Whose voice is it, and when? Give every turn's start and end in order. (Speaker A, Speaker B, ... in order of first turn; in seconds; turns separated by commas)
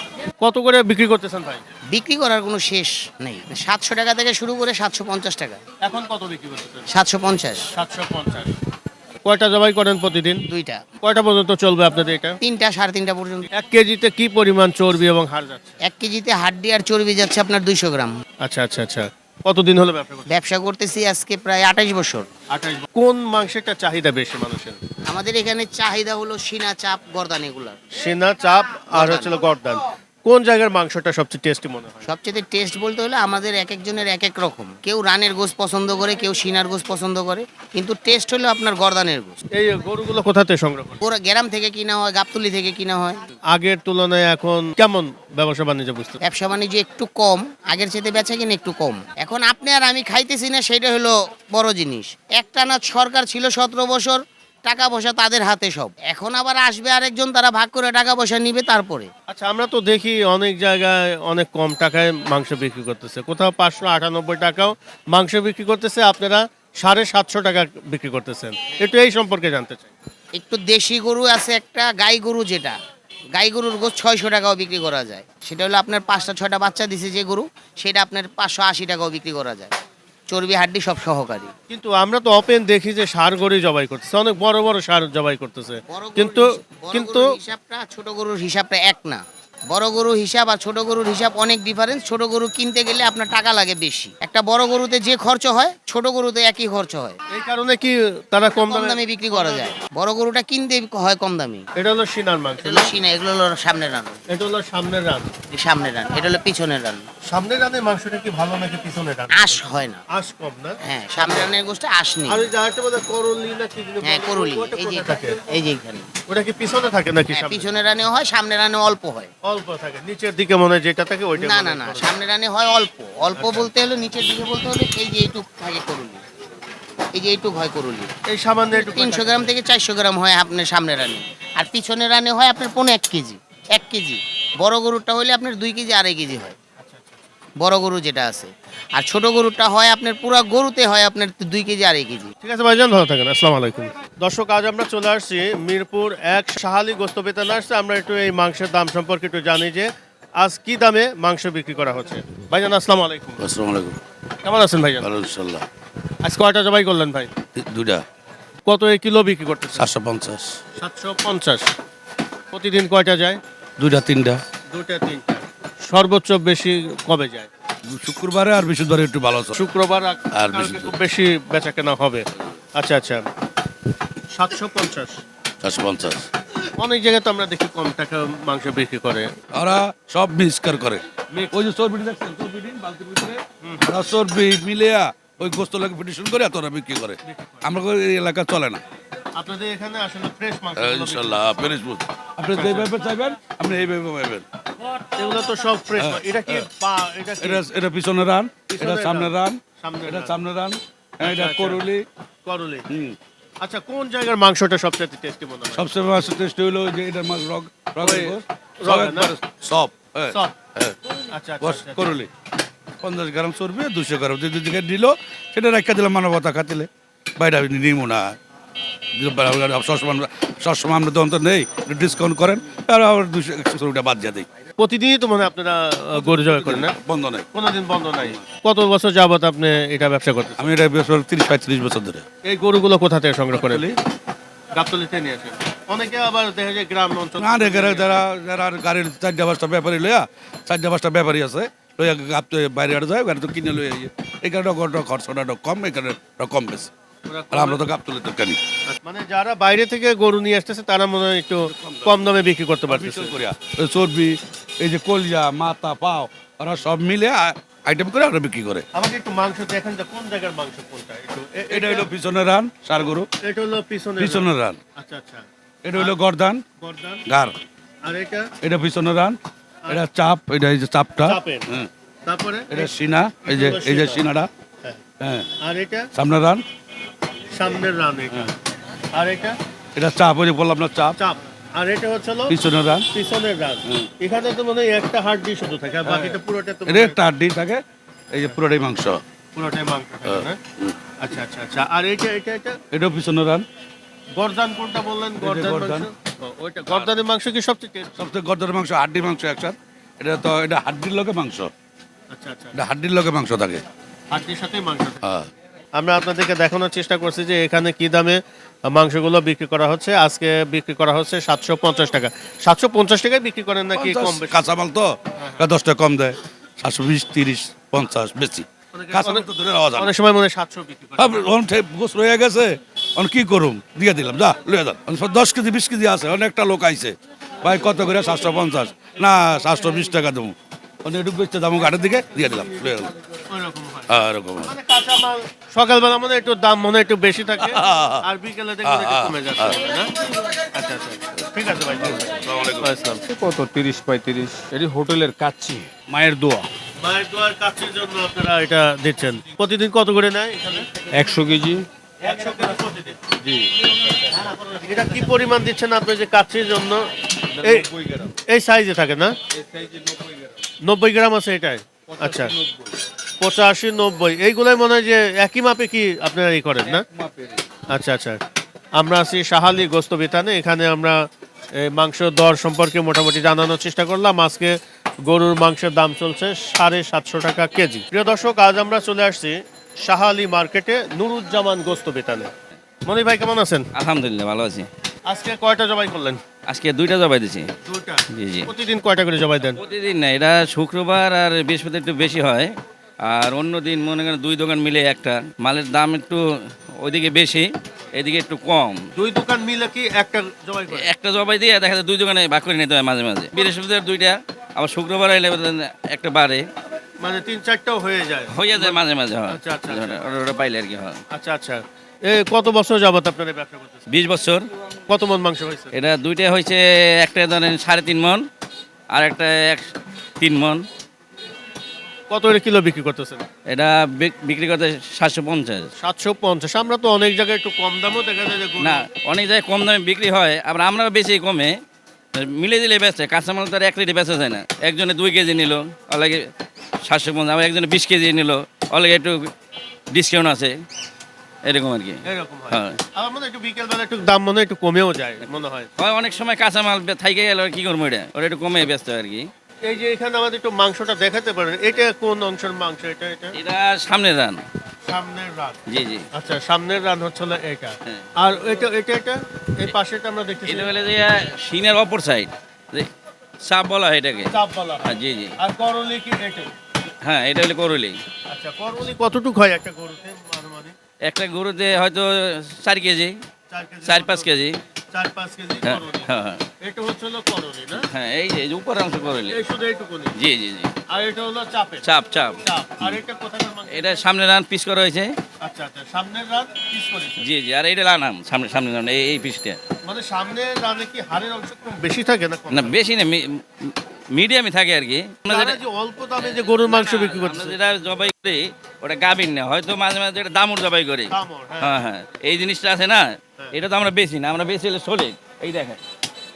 Speaker A: 0.4-1.6, Speaker B: 1.9-5.6, Speaker A: 5.8-6.9, Speaker B: 6.9-7.7, Speaker A: 7.7-8.6, Speaker A: 9.2-10.4, Speaker B: 10.5-10.8, Speaker A: 11.0-12.4, Speaker B: 12.4-13.5, Speaker A: 13.5-15.8, Speaker B: 15.9-18.1, Speaker A: 18.4-20.3, Speaker B: 20.3-22.3, Speaker A: 22.5-24.8, Speaker B: 25.1-27.8, Speaker A: 27.9-32.1, Speaker B: 28.9-29.3, Speaker B: 32.0-39.4, Speaker A: 39.5-41.0, Speaker B: 41.0-43.2, Speaker A: 43.5-46.2, Speaker B: 46.2-59.1, Speaker A: 59.3-69.9, Speaker B: 70.3-72.8, Speaker B: 73.3-79.7, Speaker B: 80.3-81.5, Speaker A: 81.7-87.3, Speaker B: 85.9-97.2, Speaker A: 97.3-99.7, Speaker B: 98.5-101.6, Speaker A: 101.8-102.9, Speaker B: 102.6-104.2, Speaker A: 104.3-105.3, Speaker B: 105.5-107.0, Speaker A: 107.3-109.6, Speaker B: 109.3-110.0, Speaker A: 110.1-111.5, Speaker B: 110.8-112.5, Speaker A: 112.3-115.4, Speaker B: 114.0-116.1, Speaker A: 116.3-117.7, Speaker B: 117.3-119.3, Speaker A: 119.4-122.1, Speaker B: 121.3-126.2, Speaker A: 123.3-123.7, Speaker B: 127.1-128.1, Speaker A: 128.3-129.6, Speaker B: 128.7-136.5, Speaker A: 136.8-137.2, Speaker B: 137.6-142.3, Speaker A: 142.4-153.4, Speaker C: 153.4-154.0, Speaker A: 154.4-155.1, Speaker C: 155.0-155.7, Speaker A: 156.2-157.3, Speaker C: 157.6-158.0, Speaker A: 158.7-159.9, Speaker C: 159.8-160.6, Speaker A: 160.8-161.7, Speaker A: 162.5-163.4, Speaker C: 163.8-164.4, Speaker A: 164.7-167.5, Speaker C: 167.9-169.6, Speaker A: 169.6-173.2, Speaker C: 170.3-170.9, Speaker A: 174.3-175.2, Speaker C: 175.6-176.3, Speaker A: 176.8-179.3, Speaker C: 179.5-181.0, Speaker C: 181.5-188.8, Speaker A: 183.6-183.9, Speaker A: 187.2-187.7, Speaker A: 189.3-191.7, Speaker C: 190.8-194.4, Speaker A: 192.5-192.9, Speaker A: 195.2-197.6, Speaker C: 196.0-196.7, Speaker C: 197.4-202.1, Speaker A: 198.7-200.4, Speaker A: 201.2-201.8, Speaker A: 202.4-202.8, Speaker C: 202.9-203.2, Speaker A: 203.6-205.9, Speaker C: 205.7-210.9, Speaker A: 208.0-209.3, Speaker A: 211.3-212.2, Speaker C: 211.6-212.3, Speaker C: 213.0-218.4, Speaker C: 219.2-224.5, Speaker A: 224.8-226.9, Speaker C: 226.1-227.4, Speaker A: 227.5-230.6, Speaker C: 230.6-232.2, Speaker A: 232.4-233.8, Speaker C: 233.5-233.9, Speaker A: 234.7-238.2, Speaker C: 237.4-246.9, Speaker A: 247.3-247.8, Speaker C: 247.5-248.6, Speaker A: 248.9-253.3, Speaker C: 251.6-252.2, Speaker C: 252.9-258.8, Speaker A: 258.9-262.1, Speaker C: 261.7-263.3, Speaker A: 263.4-265.4, Speaker C: 264.2-264.8, Speaker C: 265.8-266.6, Speaker A: 266.8-267.2, Speaker C: 267.3-267.6, Speaker A: 268.0-268.5, Speaker C: 268.6-271.9, Speaker A: 271.2-271.7, Speaker A: 272.2-272.9, Speaker C: 272.7-274.5, Speaker A: 273.5-274.2, Speaker C: 275.2-275.5, Speaker A: 275.6-276.1, Speaker C: 276.1-276.6, Speaker A: 277.5-278.5, Speaker A: 279.1-279.6, Speaker C: 279.9-281.1, Speaker A: 281.2-282.5, Speaker C: 282.5-283.1, Speaker A: 283.1-287.2, Speaker C: 286.1-287.8, Speaker C: 288.3-289.2, Speaker A: 289.5-290.6, Speaker C: 290.2-290.9, Speaker A: 291.2-292.8, Speaker C: 292.9-293.6, Speaker A: 294.4-298.3, Speaker C: 295.4-296.1, Speaker C: 298.2-301.7, Speaker A: 302.3-302.8, Speaker C: 302.7-303.8, Speaker A: 304.3-305.2, Speaker A: 305.9-314.6, Speaker C: 313.9-320.1, Speaker A: 315.4-315.6, Speaker A: 318.9-321.5, Speaker C: 321.2-333.1, Speaker A: 333.5-334.1, Speaker C: 334.1-334.7, Speaker A: 334.6-340.1, Speaker C: 337.6-338.2, Speaker C: 338.8-339.7, Speaker A: 340.7-343.2, Speaker C: 342.1-342.9, Speaker D: 343.3-345.9, Speaker C: 346.1-346.7, Speaker A: 347.0-350.9, Speaker D: 351.1-351.8, Speaker A: 352.2-353.2, Speaker D: 353.4-353.7, Speaker A: 353.8-357.1, Speaker A: 357.6-359.3, Speaker C: 357.6-358.3, Speaker C: 359.7-360.3, Speaker A: 360.8-362.5, Speaker C: 362.1-362.7, Speaker A: 363.4-367.1, Speaker A: 367.9-368.4, Speaker A: 368.9-371.2, Speaker A: 371.8-382.5, Speaker A: 383.1-383.9, Speaker E: 383.9-384.9, Speaker A: 385.3-386.4, Speaker E: 386.7-387.7, Speaker A: 387.9-389.8, Speaker E: 388.4-388.7, Speaker E: 389.8-392.7, Speaker E: 393.3-396.4, Speaker E: 397.0-399.0, Speaker A: 399.1-401.1, Speaker E: 400.9-406.6, Speaker A: 407.2-410.3, Speaker E: 408.5-411.2, Speaker A: 411.3-414.1, Speaker E: 414.1-414.6, Speaker A: 415.1-415.9, Speaker E: 415.9-418.4, Speaker E: 419.1-419.9, Speaker E: 420.4-420.8, Speaker A: 422.3-423.4, Speaker E: 423.7-425.9, Speaker A: 426.0-429.0, Speaker E: 428.8-431.7, Speaker E: 432.3-436.5, Speaker E: 437.1-439.5, Speaker E: 440.1-440.7, Speaker E: 441.6-443.0, Speaker A: 442.2-445.9, Speaker E: 446.0-449.4, Speaker A: 449.8-453.6, Speaker E: 453.5-454.6, Speaker A: 455.0-455.8, Speaker E: 455.9-456.2, Speaker A: 456.3-460.9, Speaker E: 460.6-463.1, Speaker E: 463.7-464.5, Speaker A: 464.5-465.1, Speaker E: 465.0-465.5, Speaker A: 465.6-466.7, Speaker E: 467.2-468.2, Speaker A: 468.5-470.9, Speaker E: 471.3-473.4, Speaker A: 473.7-474.5, Speaker E: 474.0-474.8, Speaker A: 475.1-476.3, Speaker E: 475.8-476.6, Speaker A: 476.8-478.1, Speaker E: 478.1-479.6, Speaker A: 479.5-480.3, Speaker E: 480.4-480.9, Speaker A: 481.1-482.1, Speaker E: 482.0-483.2, Speaker A: 482.6-484.2, Speaker E: 483.9-485.3, Speaker A: 485.6-487.5, Speaker E: 487.4-489.8, Speaker A: 490.0-493.0, Speaker E: 492.7-495.8, Speaker A: 495.5-497.8, Speaker E: 496.8-506.0, Speaker A: 501.3-502.0